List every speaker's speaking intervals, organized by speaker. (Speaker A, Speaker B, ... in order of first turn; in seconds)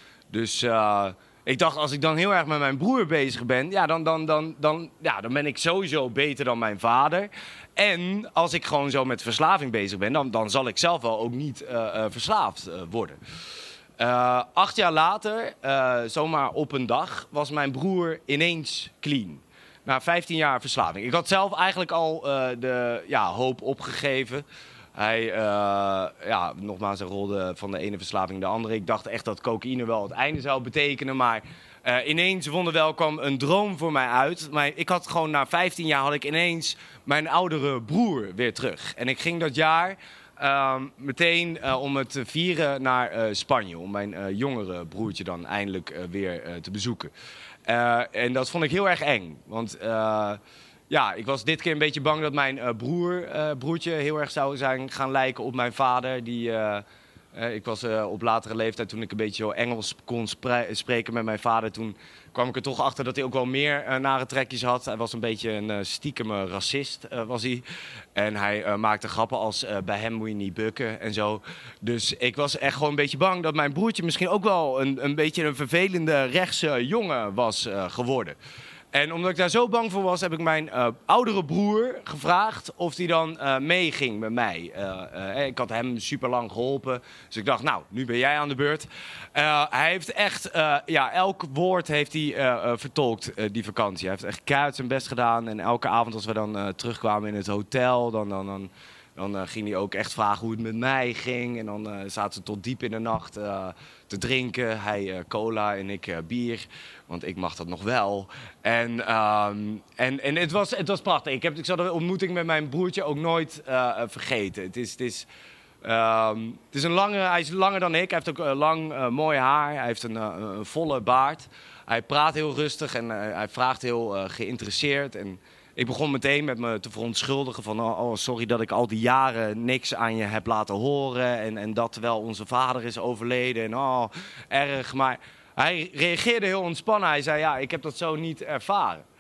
Speaker A: 0.3-13.2, 14.0-24.4, 25.0-47.1, 47.7-50.4, 50.9-67.6, 68.2-78.4, 78.9-115.3, 115.8-139.1